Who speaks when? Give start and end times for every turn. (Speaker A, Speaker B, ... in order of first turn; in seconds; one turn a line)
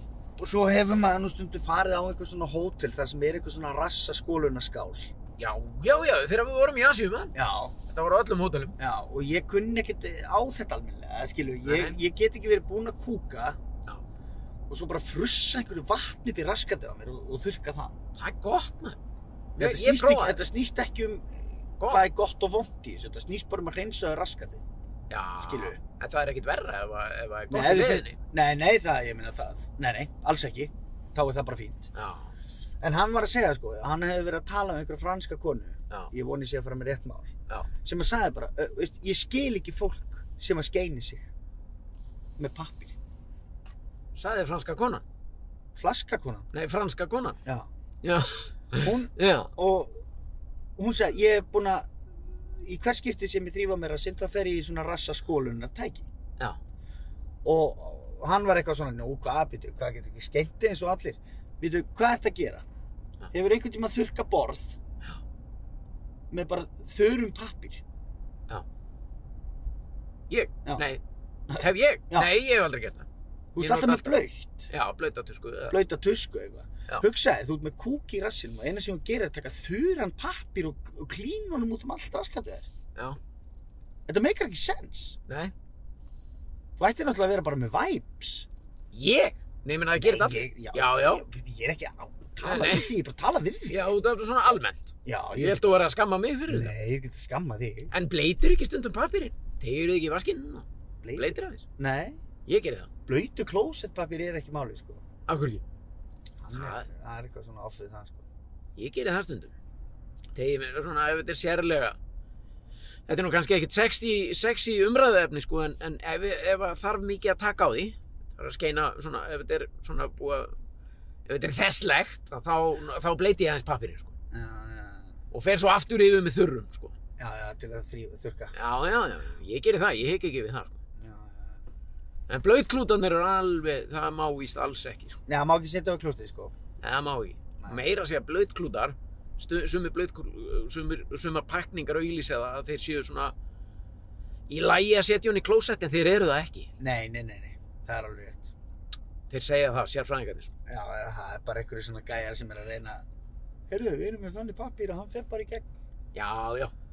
Speaker A: 0.4-5.1
Speaker B: 5.4-7.3
Speaker A: 7.3-7.8
Speaker B: 7.9-8.8
Speaker A: 8.8-13.6
Speaker B: 11.7-12.0
Speaker A: 14.7-18.0
Speaker B: 18.2-19.0
Speaker B: 19.6-20.4
Speaker A: 19.6-21.3
Speaker B: 21.8-22.0
Speaker A: 21.9-24.6
Speaker B: 25.1-28.2
Speaker A: 25.4-25.8
Speaker A: 27.5-31.9
Speaker B: 31.9-32.3
Speaker A: 32.8-37.3
Speaker A: 37.8-41.3
Speaker A: 42.4-43.0
Speaker B: 44.1-45.0
Speaker A: 45.8-46.5
Speaker B: 46.5-47.4
Speaker B: 48.0-49.5
Speaker A: 48.8-50.0
Speaker A: 50.8-51.9
Speaker A: 52.6-56.1
Speaker A: 57.4-62.6
Speaker A: 63.3-64.8
Speaker A: 66.3-67.8
Speaker B: 70.3-71.0
Speaker A: 71.5-72.3
Speaker B: 71.5-73.1
Speaker A: 73.5-74.7
Speaker B: 73.6-74.2
Speaker B: 74.7-75.8
Speaker A: 75.7-82.7
Speaker A: 84.1-85.2
Speaker B: 85.3-85.5
Speaker A: 86.8-88.5
Speaker B: 88.9-91.2
Speaker A: 90.0-93.8
Speaker B: 92.4-92.9
Speaker B: 93.7-96.7
Speaker A: 95.0-95.6
Speaker A: 96.5-97.9
Speaker B: 97.9-101.7
Speaker A: 101.0-102.2
Speaker B: 102.5-102.9
Speaker A: 103.1-105.0
Speaker B: 105.3-105.6
Speaker A: 106.4-108.2
Speaker B: 106.5-106.9
Speaker B: 108.8-109.5
Speaker B: 110.3-112.0
Speaker B: 113.1-120.5
Speaker B: 121.3-124.1
Speaker A: 124.3-125.1
Speaker B: 125.3-127.0
Speaker A: 127.2-128.5
Speaker B: 128.5-130.8
Speaker A: 131.0-131.6
Speaker B: 132.3-135.2
Speaker A: 135.3-136.5
Speaker B: 136.8-143.3
Speaker B: 144.5-146.7
Speaker A: 146.8-148.5
Speaker B: 149.3-150.5
Speaker A: 150.7-153.0
Speaker A: 153.7-155.7
Speaker B: 156.1-156.7